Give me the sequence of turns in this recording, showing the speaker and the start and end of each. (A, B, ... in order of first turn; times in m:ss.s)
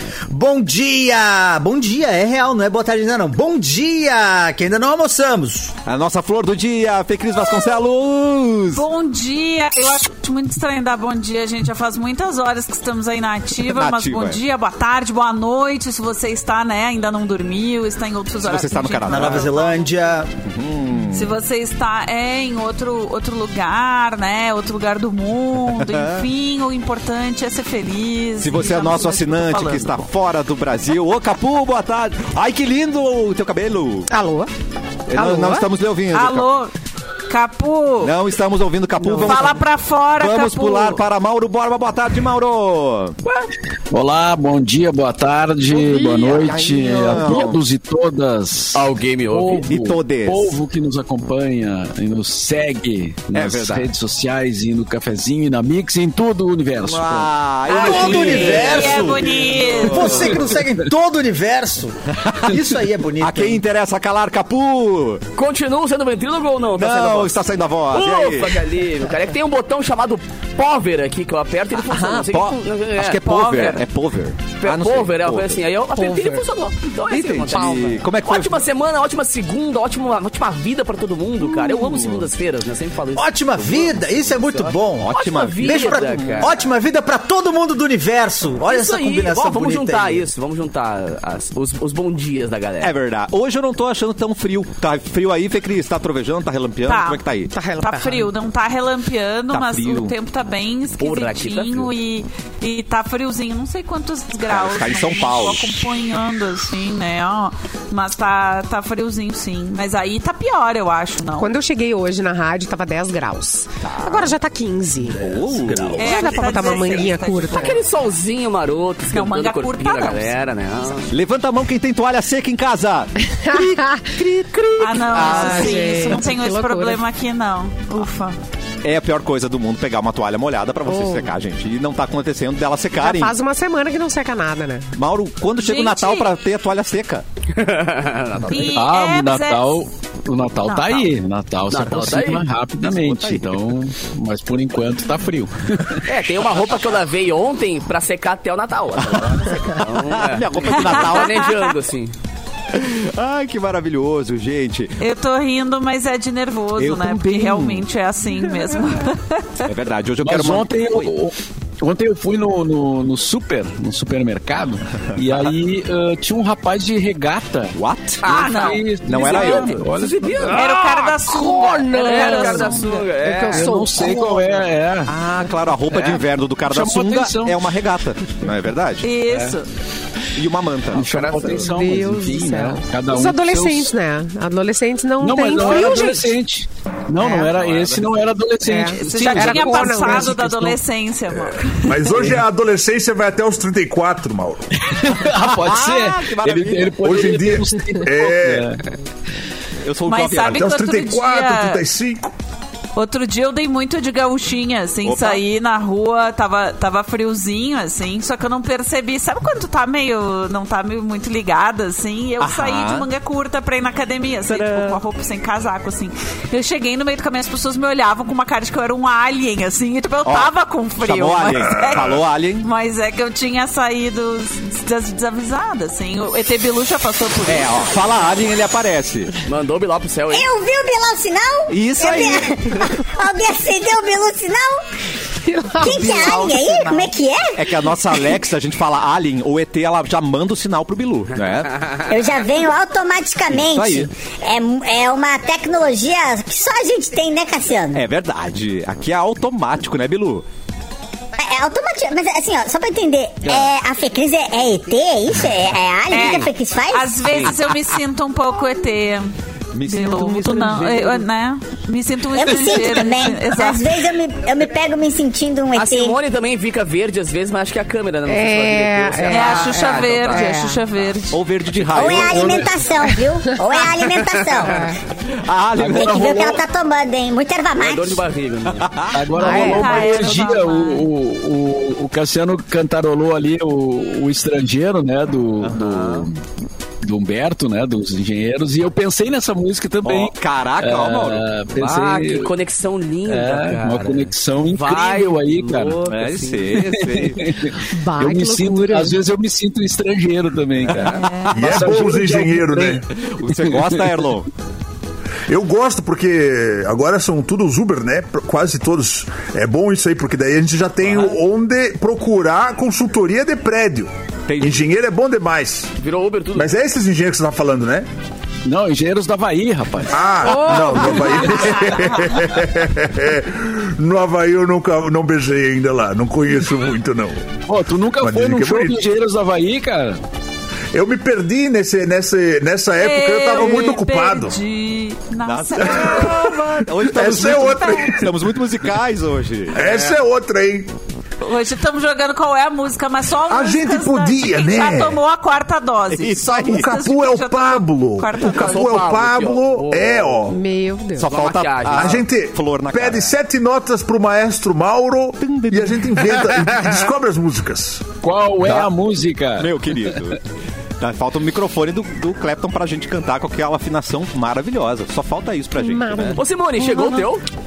0:00.3-0:05.7 A
0:05.8-0:08.8 B
0:08.7-0:20.0 C
0:13.6-0:14.4 B
0:18.4-0:19.5 B
0:19.1-0:20.3 A
0:20.4-0:21.4 B
0:21.1-0:30.0 C
0:25.8-0:26.3 B
0:28.4-0:34.1 B
0:34.1-0:34.5 D
0:35.1-0:36.5 B
0:35.1-0:35.7 D
0:36.1-0:36.7 C
0:37.3-0:38.1 C
0:38.0-0:39.6 B
0:39.0-0:39.4 D
0:39.2-0:41.0 C
0:40.2-0:43.2 B
0:43.9-0:57.3 E
0:46.4-0:47.6 B
0:46.6-0:47.0 D
0:48.7-0:49.7 F
0:49.6-0:50.6 B
0:53.3-0:53.9 B
0:56.8-0:59.1 B
0:57.7-1:00.4 C
0:57.7-1:03.6 A
0:57.9-1:00.3 F
1:02.2-1:02.6 B
1:03.2-1:05.2 B
1:05.4-1:07.4 F
1:06.7-1:08.6 B
1:07.9-1:13.2 F
1:11.8-1:15.6 B
1:13.2-1:13.8 C
1:14.6-1:26.5 F
1:15.9-1:16.4 D
1:17.1-1:18.6 B
1:21.5-1:22.3 B
1:23.1-1:30.2 A
1:25.0-1:26.6 B
1:28.6-1:32.9 F
1:32.8-1:37.5 B
1:36.8-1:51.5 C
1:37.5-1:38.3 D
1:39.5-1:40.1 B
1:41.0-1:41.9 F
1:44.5-1:45.8 B
1:51.4-1:55.2 D
1:53.8-1:54.3 B
1:55.2-1:56.3 B
1:55.7-2:01.1 F
1:56.0-1:57.8 C
1:56.0-1:57.8 D
1:59.1-2:00.3 C
2:01.1-2:05.8 B
2:03.3-2:04.1 D
2:04.8-2:08.4 C
2:05.1-2:07.0 D
2:08.8-2:13.4 B
2:10.9-2:11.3 D
2:13.0-2:14.9 D
2:14.9-2:17.2 B
2:15.6-2:16.3 C
2:17.5-2:18.7 F
2:18.5-2:19.8 C
2:18.6-2:26.1 E
2:20.6-2:21.0 C
2:21.7-2:22.4 F
2:22.8-2:23.5 B
2:26.0-2:32.1 F
2:29.3-2:31.5 B
2:30.7-2:31.7 C
2:32.7-2:35.0 B
2:35.0-2:39.7 C
2:36.8-2:37.9 B
2:39.6-2:41.1 B
2:40.2-2:47.8 E
2:45.2-2:45.5 B
2:47.7-2:48.4 B
2:48.2-2:51.4 F
2:48.2-2:49.7 C
2:48.5-2:50.6 E
2:49.0-2:49.8 B
2:50.5-2:53.0 C
2:51.2-2:54.5 D
2:51.9-2:53.7 F
2:53.4-2:55.1 E
2:55.1-2:59.1 B
2:55.9-2:57.6 E
2:59.0-2:59.7 C
2:59.3-2:59.6 E
3:00.3-3:01.4 B
3:00.9-3:03.9 E
3:01.0-3:01.6 F
3:01.5-3:06.3 D
3:05.2-3:10.6 E
3:07.2-3:07.5 D
3:07.5-3:08.3 B
3:08.6-3:10.8 D
3:08.9-3:12.0 C
3:11.8-3:14.7 G
3:14.8-3:18.8 E
3:15.2-3:17.4 B
3:17.0-3:18.7 G
3:19.8-3:20.7 B
3:20.0-3:21.8 C
3:20.5-3:22.3 G
3:22.9-3:47.9 C
3:25.0-3:25.4 B
3:32.4-3:33.0 B
3:34.5-3:35.0 B
3:40.2-3:42.7 B
3:47.4-3:49.3 B
3:49.4-3:50.5 F
3:50.3-3:54.8 H
3:51.7-3:52.9 B
3:55.4-3:56.2 D
3:55.8-3:57.6 H
3:55.8-3:57.1 C
3:55.9-3:56.3 B
3:57.5-4:01.8 B
4:02.0-4:08.0 H
4:03.5-4:04.1 B
4:07.9-4:10.4 B
4:11.4-4:17.6 H
4:13.4-4:13.7 B
4:16.1-4:19.3 C
4:17.2-4:17.6 B
4:19.7-4:20.8 B
4:19.8-4:24.1 C
4:20.6-4:21.0 F
4:22.3-4:26.2 H
4:25.7-4:30.6 F
4:28.3-4:30.8 D
4:29.3-4:31.4 C
4:31.3-4:32.9 B
4:31.9-4:34.9 H
4:32.2-4:32.7 E
4:33.5-4:33.9 D
4:34.5-4:35.0 D
4:35.4-4:36.6 B
4:35.8-4:36.6 E
4:35.9-4:38.2 H
4:37.8-4:39.0 F
4:38.6-4:39.2 B
4:39.1-4:46.4 E
4:39.4-4:40.3 D
4:39.4-4:41.1 C
4:45.6-4:46.3 B
4:47.0-4:52.5 E
4:50.0-4:51.5 B
4:51.8-4:57.1 F
4:53.2-4:56.0 E
4:56.0-4:57.4 B
4:57.0-5:03.0 E
4:57.9-4:59.2 D
5:00.8-5:01.5 B
5:01.1-5:01.6 C
5:01.5-5:03.0 G
5:03.1-5:04.5 B
5:03.6-5:04.0 E
5:05.5-5:15.9 G
5:14.5-5:14.8 B
5:16.0-5:16.7 F
5:16.5-5:18.1 G
5:18.6-5:20.9 E
5:20.1-5:27.5 G
5:20.4-5:21.5 D
5:21.1-5:22.2 C
5:27.7-5:30.2 E
5:28.2-5:29.0 G
5:30.9-5:34.6 G
5:33.0-5:36.4 C
5:35.4-5:40.2 B
5:35.8-5:38.3 G
5:37.8-5:38.1 C
5:39.7-5:40.9 G
5:41.4-5:48.9 C
5:43.5-5:45.2 G
5:46.1-5:46.9 B
5:46.4-5:50.6 G
5:48.5-5:50.5 F
5:50.5-5:51.3 D
5:51.2-5:53.4 B
5:51.2-5:52.2 F
5:51.9-5:58.1 G
5:55.4-5:56.4 B
5:58.2-6:00.0 E
5:58.6-5:58.9 B
5:59.6-6:00.4 B
6:01.0-6:06.4 B
6:05.8-6:06.4 D
6:06.3-6:07.4 F